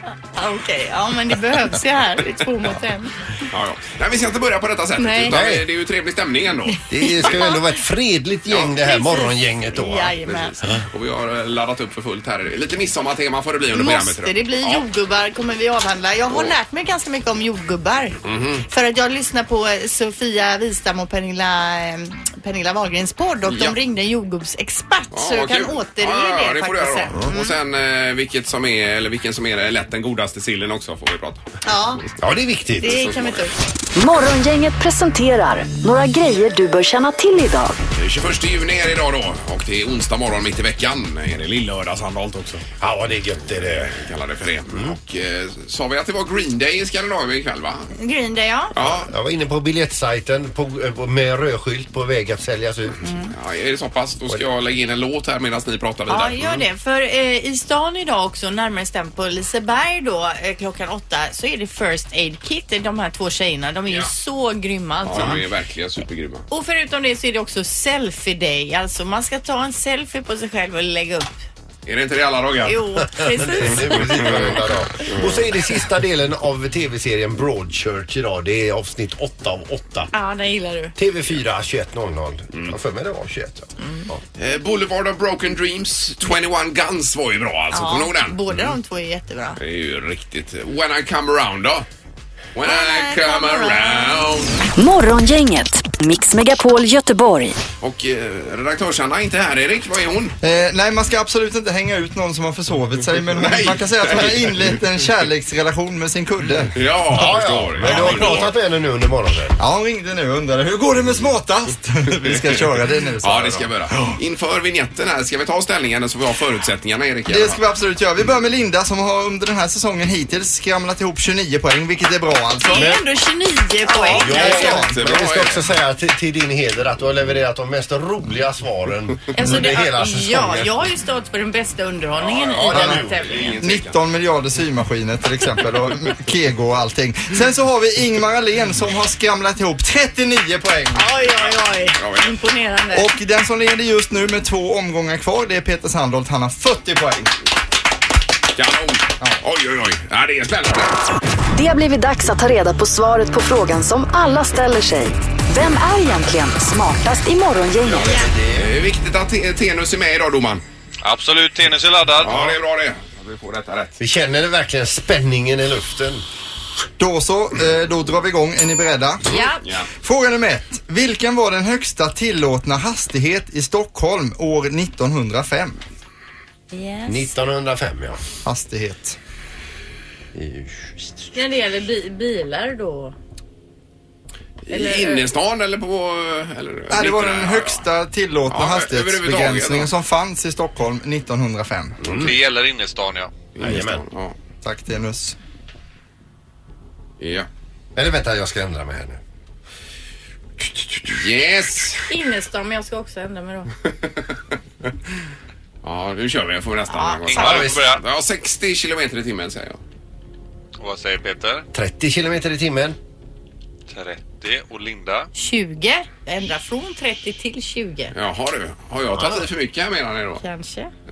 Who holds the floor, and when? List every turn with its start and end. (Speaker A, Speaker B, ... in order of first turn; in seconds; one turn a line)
Speaker A: 0.3-3.1
Speaker B: 3.5-6.8
Speaker A: 5.0-5.4
Speaker C: 5.3-5.7
Speaker C: 6.9-10.1
Speaker A: 7.0-7.7
Speaker B: 8.5-8.8
Speaker A: 8.8-10.6
Speaker B: 10.2-14.8
Speaker A: 13.7-27.5
Speaker B: 16.3-16.6
Speaker B: 18.2-18.6
Speaker B: 23.4-23.7
Speaker B: 25.1-32.1
Speaker A: 31.6-32.0
Speaker C: 32.2-33.0
Speaker A: 32.8-33.6
Speaker B: 32.8-33.5
Speaker D: 33.9-37.8
Speaker B: 38.0-42.7
Speaker C: 42.8-44.0
Speaker B: 43.6-47.9
Speaker A: 48.0-48.7
Speaker B: 48.7-49.1
Speaker C: 48.8-53.0
Speaker A: 53.0-53.3
Speaker B: 53.3-56.6
Speaker A: 56.1-65.4
Speaker B: 65.0-66.5
Speaker A: 66.5-71.3
Speaker B: 71.8-72.8
Speaker A: 72.6-74.5
Speaker C: 73.0-80.1
Speaker B: 73.6-74.5
Speaker B: 75.0-75.4
Speaker A: 80.1-80.9
Speaker C: 81.0-84.2
Speaker A: 83.8-84.1
Speaker B: 84.4-88.7
Speaker A: 87.7-89.6
Speaker B: 89.6-91.8
Speaker B: 92.5-94.6
Speaker A: 92.6-94.3
Speaker D: 94.8-97.6
Speaker B: 97.8-100.3
Speaker E: 100.4-106.8
Speaker B: 103.3-104.8
Speaker B: 106.7-108.5
Speaker C: 107.1-109.6
Speaker E: 107.8-108.5
Speaker E: 109.6-114.2
Speaker B: 112.2-117.6
Speaker E: 117.3-123.0
Speaker A: 122.6-124.8
Speaker C: 122.7-123.0
Speaker E: 123.9-125.2
Speaker B: 124.1-125.7
Speaker C: 124.1-130.8
Speaker A: 129.3-133.5
Speaker E: 129.5-129.7
Speaker B: 132.2-134.0
Speaker C: 132.6-133.3
Speaker E: 132.7-133.0
Speaker E: 133.6-141.1
Speaker A: 140.9-143.1
Speaker B: 141.4-142.3
Speaker E: 142.9-147.3
Speaker B: 148.6-150.9
Speaker D: 151.5-158.1
Speaker B: 157.9-160.6
Speaker C: 157.9-158.7
Speaker F: 161.0-162.5
Speaker B: 162.2-164.0
Speaker C: 164.0-166.2
Speaker E: 167.0-169.5
Speaker A: 169.2-169.6
Speaker E: 170.0-175.8
Speaker A: 176.7-177.3
Speaker C: 177.1-178.2
Speaker E: 178.4-179.2
Speaker C: 180.3-181.2
Speaker A: 181.3-183.1
Speaker B: 184.6-187.8
Speaker A: 184.7-185.2
Speaker E: 186.9-192.0
Speaker B: 188.5-189.9
Speaker C: 192.0-192.3
Speaker F: 192.0-193.3
Speaker B: 193.5-194.3
Speaker C: 193.6-194.0
Speaker E: 194.6-195.3
Speaker B: 197.2-197.5
Speaker C: 197.9-199.2
Speaker B: 200.6-202.1
Speaker A: 202.1-203.7
Speaker B: 203.8-204.3
Speaker B: 205.8-209.8
Speaker A: 206.9-207.7
Speaker F: 207.3-208.0
Speaker C: 207.4-207.8
Speaker F: 210.8-211.7
Speaker C: 211.7-213.0
Speaker F: 213.9-215.3
Speaker A: 215.3-218.1
Speaker B: 218.1-220.4
Speaker C: 219.1-219.5
Speaker A: 220.4-220.9